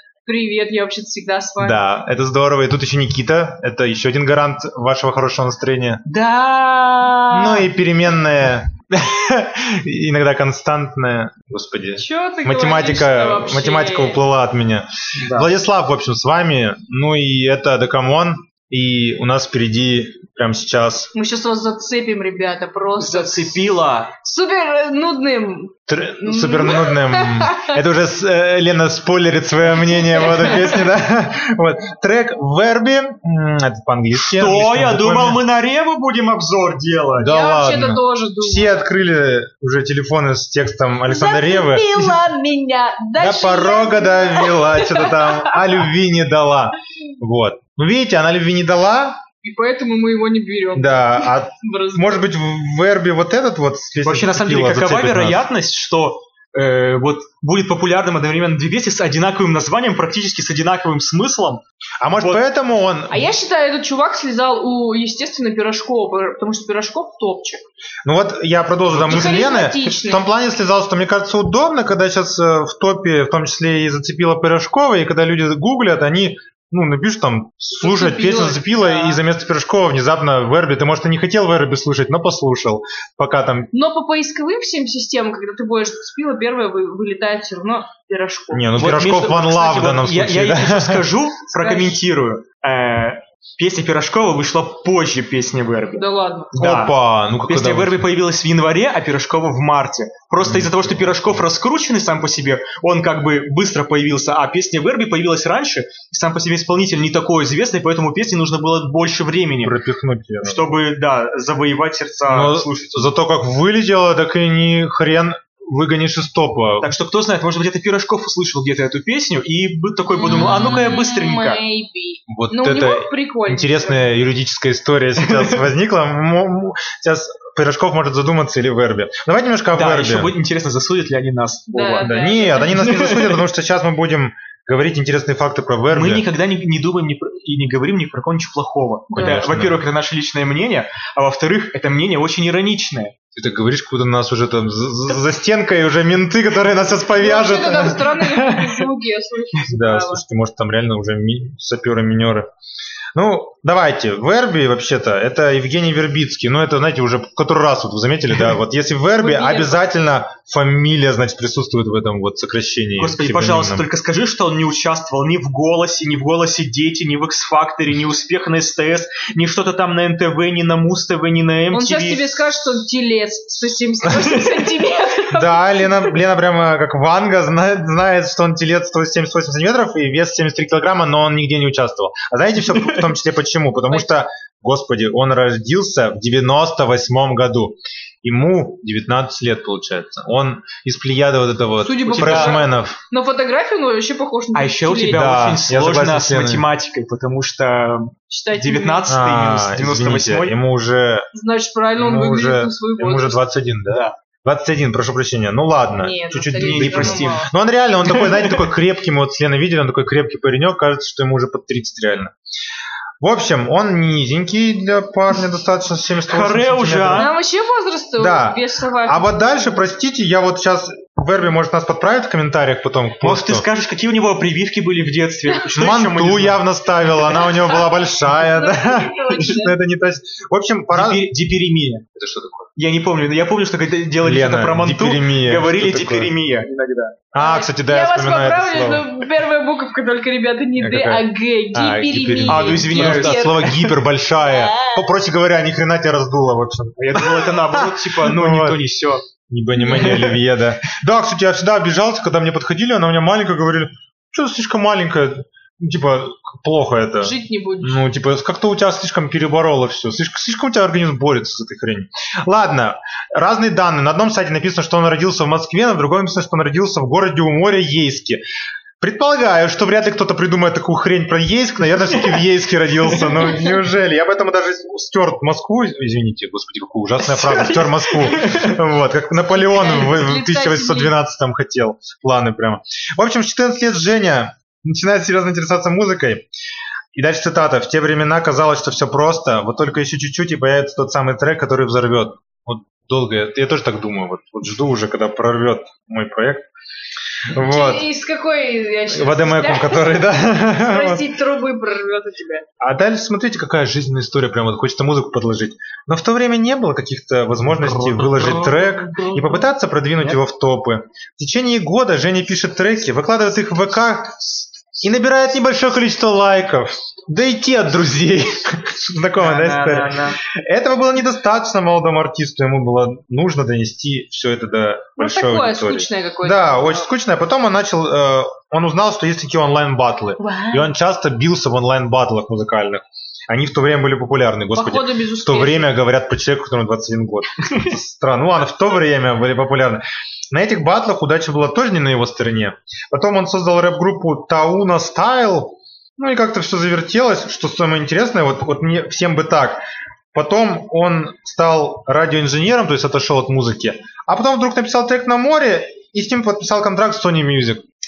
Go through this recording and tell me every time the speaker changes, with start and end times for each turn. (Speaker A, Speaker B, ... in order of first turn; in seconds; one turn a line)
Speaker A: 0.3-1.8
Speaker B: 1.6-6.0
Speaker C: 6.1-7.0
Speaker A: 6.7-7.5
Speaker B: 7.3-21.1
Speaker A: 12.0-14.2
Speaker C: 15.2-15.5
Speaker A: 21.1-23.6
Speaker C: 23.0-24.1
Speaker A: 24.2-27.8
Speaker B: 25.9-35.4
Speaker A: 30.0-30.9
Speaker C: 34.1-37.4
Speaker B: 37.2-42.2
Speaker A: 37.2-38.9
Speaker A: 41.0-45.9
Speaker B: 43.2-49.2
Speaker A: 49.4-52.3
Speaker B: 50.8-55.5
Speaker C: 54.0-61.6
Speaker B: 62.0-63.3
Speaker C: 62.1-62.4
Speaker A: 63.1-67.6
Speaker B: 68.0-83.7
Speaker C: 68.9-69.5
Speaker A: 69.0-70.2
Speaker A: 77.8-79.2
Speaker A: 83.7-88.7
Speaker B: 88.5-91.1
Speaker C: 88.8-96.9
Speaker A: 91.6-92.0
Speaker A: 96.0-96.5
Speaker B: 96.5-98.0
Speaker C: 97.5-109.7
Speaker B: 100.4-101.4
Speaker B: 109.6-110.7
Speaker C: 110.4-113.1
Speaker B: 112.3-116.9
Speaker C: 116.8-121.6
Speaker A: 120.2-124.0
Speaker B: 120.3-120.6
Speaker B: 122.3-130.3
Speaker C: 125.2-125.6
Speaker C: 129.7-132.1
Speaker A: 131.7-133.2
Speaker B: 132.0-136.3
Speaker C: 132.7-133.4
Speaker C: 135.9-143.1
Speaker B: 139.1-139.8
Speaker A: 139.1-139.4
Speaker B: 143.3-148.8
Speaker A: 147.1-150.2
Speaker B: 149.7-152.5
Speaker B: 153.2-163.8
Speaker A: 159.2-159.8
Speaker C: 163.0-172.4
Speaker A: 171.7-176.2
Speaker B: 175.3-193.0
Speaker A: 191.8-195.3
Speaker C: 192.1-192.6
Speaker C: 194.5-200.6
Speaker B: 195.1-196.7
Speaker A: 198.3-199.1
Speaker B: 199.1-201.3
Speaker A: 201.3-203.4
Speaker B: 202.0-212.3
Speaker C: 203.9-204.2
Speaker A: 206.0-207.5
Speaker C: 206.5-207.4
Speaker C: 208.1-208.6
Speaker B: 213.2-217.3
Speaker C: 216.3-217.3
Speaker A: 217.2-219.8
Speaker B: 218.2-223.7
Speaker C: 223.2-227.7
Speaker B: 225.7-231.3
Speaker A: 228.4-229.8
Speaker C: 230.9-232.1
Speaker B: 232.2-232.7
Speaker C: 232.8-237.2
Speaker B: 234.2-236.3
Speaker B: 237.3-239.1
Speaker A: 237.4-245.1
Speaker B: 240.8-248.8
Speaker C: 242.5-243.6
Speaker C: 247.0-249.2
Speaker B: 249.5-268.4
Speaker C: 249.9-250.4
Speaker A: 257.2-258.0
Speaker B: 269.0-286.4
Speaker C: 273.1-273.5
Speaker C: 277.2-278.7
Speaker A: 279.5-281.1
Speaker B: 287.1-296.6
Speaker B: 297.5-298.1
Speaker A: 297.6-302.7
Speaker B: 299.1-301.3
Speaker B: 302.8-349.8
Speaker C: 307.7-308.8
Speaker A: 308.7-309.5
Speaker C: 319.4-320.4
Speaker A: 325.2-327.1
Speaker A: 330.4-330.9
Speaker A: 334.7-335.9
Speaker B: 350.3-357.8